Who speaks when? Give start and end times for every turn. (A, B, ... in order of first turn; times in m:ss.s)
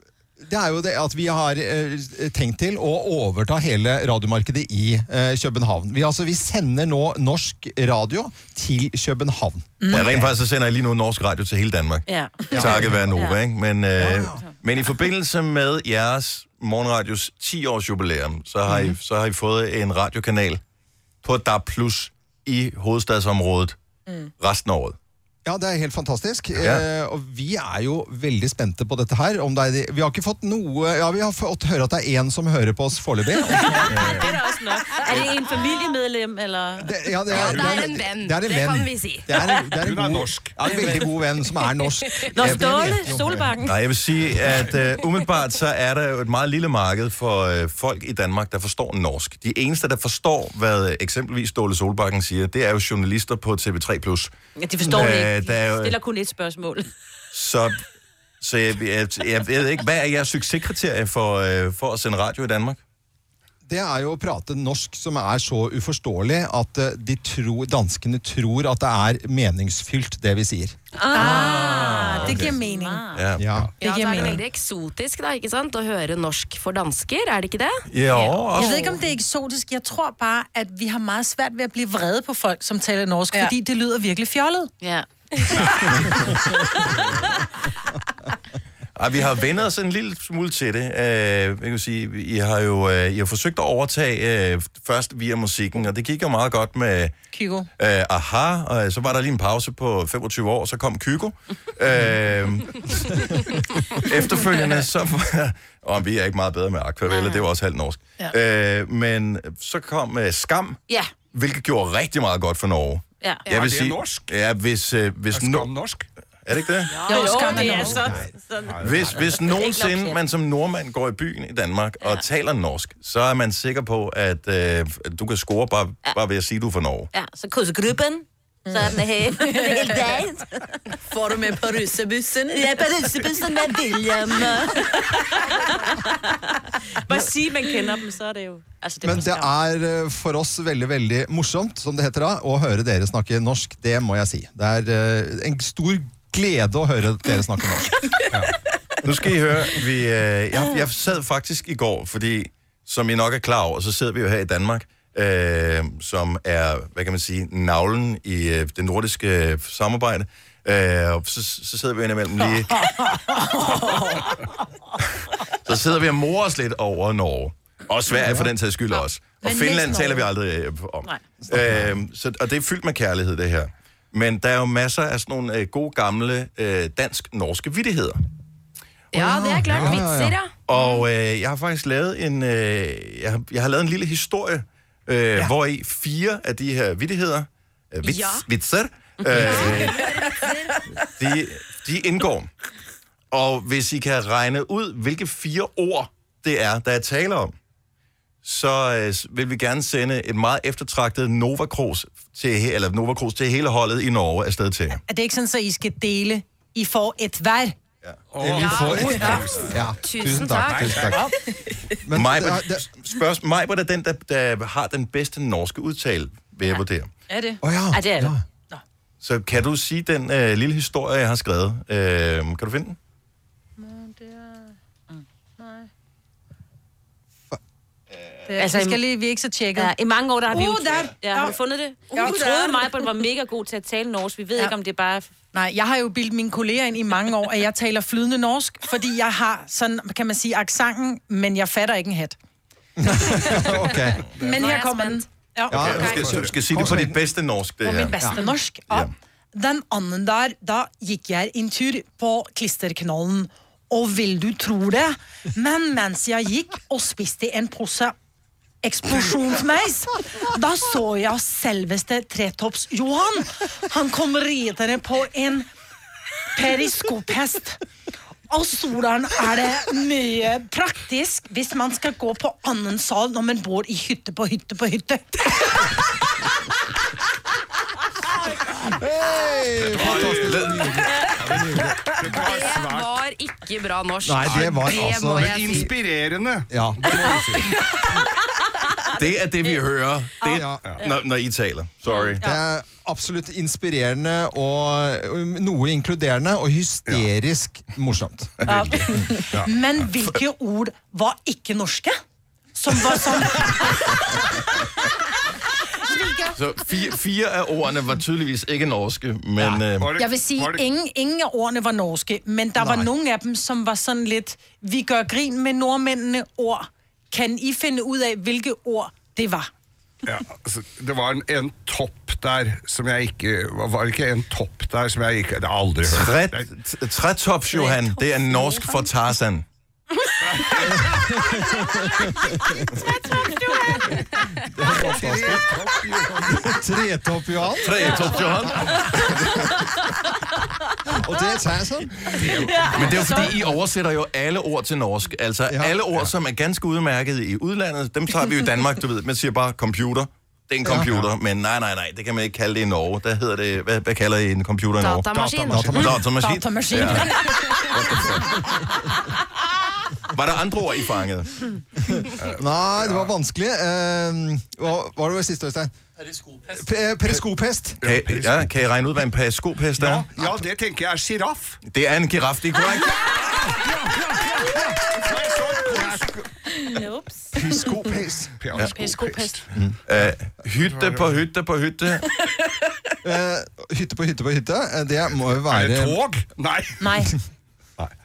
0:00.4-0:10.3 A
0:09.8-0:10.2 B
0:09.9-0:20.6 C
0:12.1-0:13.4 D
0:14.0-0:14.4 A
0:21.2-0:23.8 C
0:24.4-0:25.0 C
0:25.4-0:34.2 A
0:26.6-0:26.8 C
0:33.5-0:36.9 D
0:36.8-0:43.5 A
0:37.3-0:37.9 E
0:37.3-0:39.3 F
0:39.8-0:40.8 E
0:42.3-0:43.7 D
0:43.6-0:54.3 C
0:54.6-0:56.9 D
0:54.9-0:55.9 C
0:57.3-0:57.8 C
0:58.4-1:02.8 C
1:03.6-1:10.8 A
1:11.0-1:13.2 D
1:11.1-1:13.0 B
1:11.1-1:12.5 C
1:13.1-1:13.4 C
1:13.4-1:13.7 A
1:13.8-1:17.8 F
1:13.8-1:14.4 B
1:17.9-1:18.9 C
1:18.1-1:18.4 D
1:18.5-1:24.7 B
1:24.8-1:25.9 D
1:28.9-1:37.2 C
1:37.3-1:37.7 B
1:37.8-1:50.8 C
1:47.1-1:47.4 D
1:51.3-1:55.7 C
1:53.2-1:53.5 D
1:53.5-1:54.3 E
1:55.3-1:56.1 E
1:56.4-1:57.5 C
1:56.9-2:00.2 D
1:57.1-1:58.1 B
1:57.8-1:58.3 A
1:58.6-1:59.3 E
1:58.8-2:07.1 C
2:07.1-2:10.8 D
2:08.6-2:10.1 G
2:11.1-2:12.7 G
2:12.5-2:19.5 D
2:19.0-2:28.0 A
2:29.0-2:42.8 C
2:42.8-2:44.4 B
2:45.5-2:58.2 C
2:48.2-2:48.5 A
2:49.4-2:50.3 B
2:51.4-2:51.9 A
2:59.1-3:00.5 F
2:59.1-3:00.4 A
3:00.7-3:10.0 C
3:08.0-3:08.5 F
3:09.3-3:10.8 F
3:11.1-3:12.5 C
3:13.3-3:17.5 C
3:18.4-3:25.0 C
3:25.1-3:27.7 B
3:28.3-3:29.9 E
3:28.4-3:31.3 A
3:28.5-3:29.4 F
3:30.0-3:31.1 F
3:30.6-3:31.3 E
3:32.0-3:32.8 A
3:32.1-3:37.1 C
3:37.3-3:37.6 B
3:37.6-3:38.4 A
3:37.9-3:38.3 D
3:39.2-3:43.0 C
3:43.8-3:44.7 B
3:45.6-3:45.9 B
3:48.5-3:49.9 B
3:48.6-3:49.0 D
3:49.8-3:55.3 D
3:50.5-3:51.6 B
3:52.1-3:52.9 B
3:55.5-4:02.4 B
4:03.0-4:04.2 A
4:03.1-4:03.7 B
4:04.3-4:04.7 E
4:04.4-4:06.3 B
4:04.6-4:05.1 D
4:05.7-4:07.2 A
4:05.7-4:07.0 E
4:05.7-4:08.2 C
4:07.8-4:18.1 B
4:18.8-4:25.7 B
4:26.5-4:27.8 B
4:28.5-4:35.9 B
4:38.8-4:42.0 A
4:39.8-4:40.8 E
4:40.1-4:40.9 C
4:41.4-4:43.2 E
4:42.3-4:45.9 F
4:44.2-4:45.9 A
4:44.5-4:47.8 E
4:46.7-4:47.2 A
4:49.1-4:52.4 C
4:50.5-4:50.8 A
4:52.4-4:58.7 A
4:58.7-5:02.2 B
4:58.7-4:59.0 C
5:02.7-5:04.4 B
5:06.0-5:06.5 B
5:06.5-5:10.1 C
5:09.6-5:10.8 E
5:10.2-5:19.7 B
5:12.8-5:13.1 A
5:20.2-5:26.7 E
5:26.0-5:29.6 C
5:30.4-5:31.3 E
5:30.9-5:33.0 A
5:34.6-5:35.8 A
5:34.9-5:36.7 E
5:36.4-5:38.2 A
5:37.8-5:39.5 C
5:41.1-5:42.4 A
5:42.2-5:57.3 C
5:42.6-5:43.4 D
5:43.1-5:43.5 B
5:45.7-5:46.0 A
5:50.8-5:51.3 A
5:55.0-5:56.0 F
5:55.3-5:56.2 E
5:55.7-5:56.2 A
5:56.3-5:58.1 B
5:57.9-5:58.5 E
6:00.3-6:01.7 C
6:02.1-6:05.9 A
6:02.4-6:03.3 E
6:06.7-6:08.0 A
6:08.0-6:08.7 E
6:08.0-6:10.3 C
6:10.0-6:11.8 E
6:10.4-6:10.6 A
6:11.8-6:13.2 C
6:13.2-6:14.1 E
6:14.5-6:14.8 A
6:15.1-6:16.5 E
6:16.9-6:17.5 D
6:17.5-6:18.5 A
6:18.6-6:21.4 E
6:18.8-6:19.6 B
6:20.0-6:22.3 C
6:23.2-6:26.2 A
6:25.7-6:27.3 E
6:27.0-6:27.3 B